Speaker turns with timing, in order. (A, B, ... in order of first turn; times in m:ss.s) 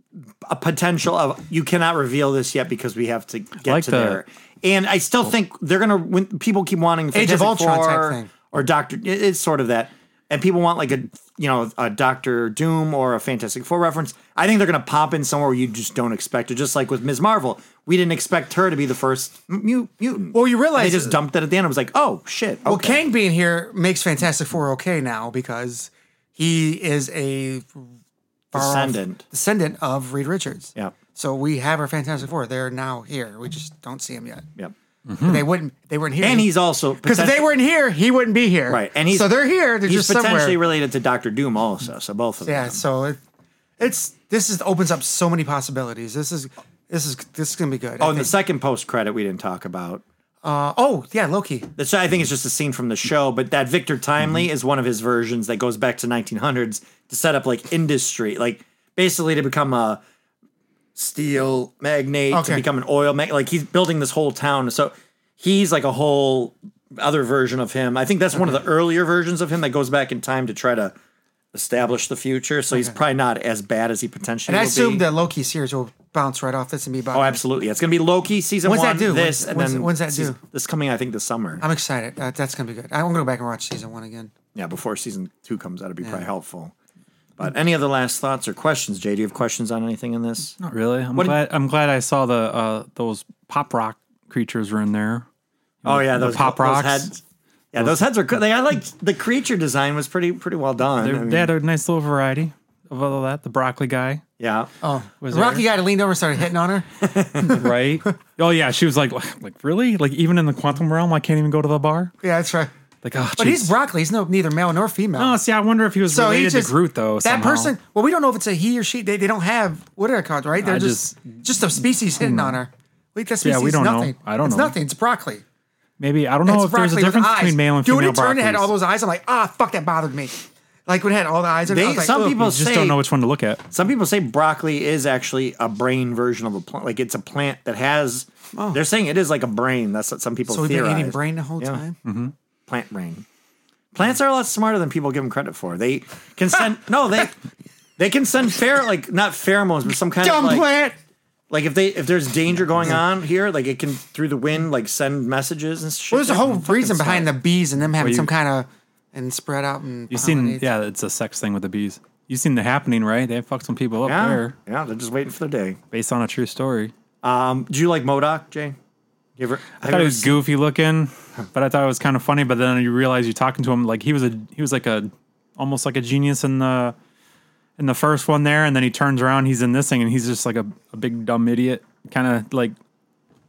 0:00.4-0:23.0 A
0:03.6-0:04.2 B
0:07.1-0:08.3 C
0:20.3-0:21.2 C
0:22.6-0:27.9 C
0:28.5-0:34.4 C
0:28.5-0:29.2 A
0:35.1-0:35.5 B
0:35.2-0:40.6 C
0:36.2-0:37.5 A
0:38.7-0:42.8 A
0:42.4-0:43.2 C
0:43.8-0:48.3 C
0:48.0-0:50.0 A
0:50.4-0:51.7 C
0:51.8-1:00.0 A
1:01.0-1:11.0 A
1:02.3-1:02.6 C
1:11.5-1:15.1 A
1:14.5-1:17.4 C
1:17.1-1:21.6 A
1:18.6-1:20.4 C
1:21.6-1:24.3 C
1:24.6-1:26.7 A
1:27.4-1:30.6 A
1:30.6-1:35.3 B
1:35.8-1:37.1 B
1:35.8-1:37.2 A
1:37.7-1:41.5 A
1:41.0-1:44.2 B
1:44.4-1:44.7 A
1:44.8-1:48.1 C
1:45.2-1:45.6 B
1:47.0-1:47.6 A
1:47.5-1:52.1 B
1:52.2-1:52.7 C
1:53.0-1:53.8 B
1:53.4-1:55.4 C
1:55.2-1:57.7 B
1:56.1-2:05.4 C
2:00.6-2:01.4 B
2:02.1-2:02.6 B
2:03.4-2:04.8 B
2:06.0-2:08.7 B
2:06.5-2:12.3 C
2:11.7-2:13.0 A
2:12.2-2:13.6 B
2:13.7-2:21.8 A
2:18.6-2:18.8 C
2:20.5-2:22.0 C
2:22.0-2:22.3 B
2:22.7-2:23.2 A
2:23.9-2:27.4 A
2:28.0-2:30.6 A
2:30.2-2:31.0 C
2:31.5-2:37.3 A
2:36.1-2:40.7 C
2:38.0-2:38.3 B
2:40.1-2:44.6 B
2:44.0-2:45.8 A
2:45.9-2:46.9 B
2:47.2-2:48.8 A
2:49.4-2:50.4 A
2:49.8-2:57.0 B
2:57.8-3:02.8 B